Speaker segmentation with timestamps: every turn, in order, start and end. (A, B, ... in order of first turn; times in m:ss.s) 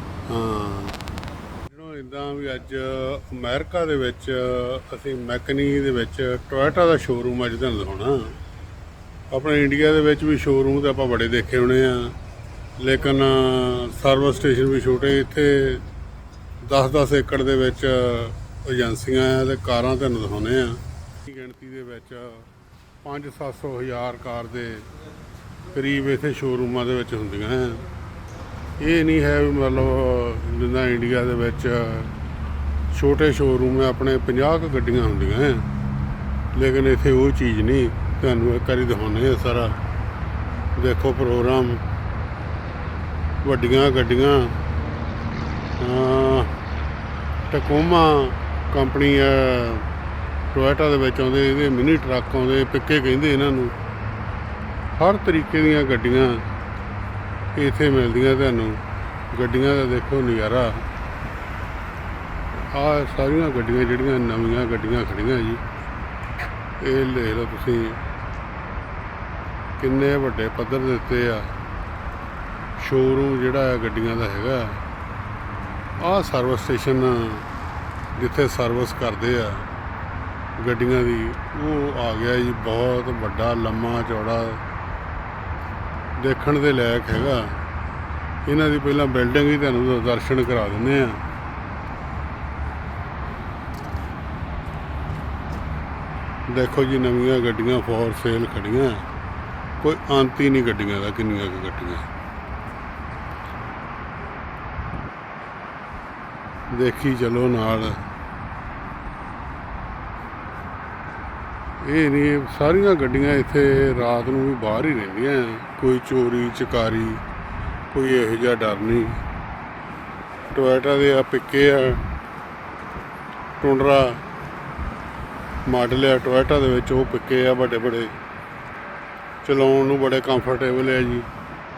0:00.3-0:01.0 A
0:01.7-0:08.3 A
0:09.3-0:12.2 A
0:12.8-0:15.8 A
0:16.6-0:22.5 A
0:23.0-0:24.9 A
0:25.7-0:27.8 A
0:28.8-0:32.1 A
0:32.9-0:35.7 A
0:36.5-0:39.8 A
0:40.8-0:41.8 A
0:43.4-0:44.6 A
0:45.8-0:46.5 A
0:47.5-0:49.9 A
0:50.5-0:53.7 A
0:55.0-0:56.4 A
0:57.6-1:00.8 A
1:02.7-1:05.6 A
1:06.8-1:08.0 A
1:09.8-1:11.5 A
1:12.8-1:14.8 A
1:16.0-1:17.5 A
1:18.2-1:19.6 A
1:20.6-1:24.6 A
1:26.2-1:27.5 A
1:28.5-1:31.2 A
1:36.5-1:39.0 A
1:39.8-1:42.0 A
1:46.7-1:48.0 A
1:51.8-1:57.2 A
1:57.9-1:59.2 A
2:00.5-2:02.0 A
2:03.6-2:04.2 A
2:05.7-2:08.1 A
2:09.4-2:11.3 A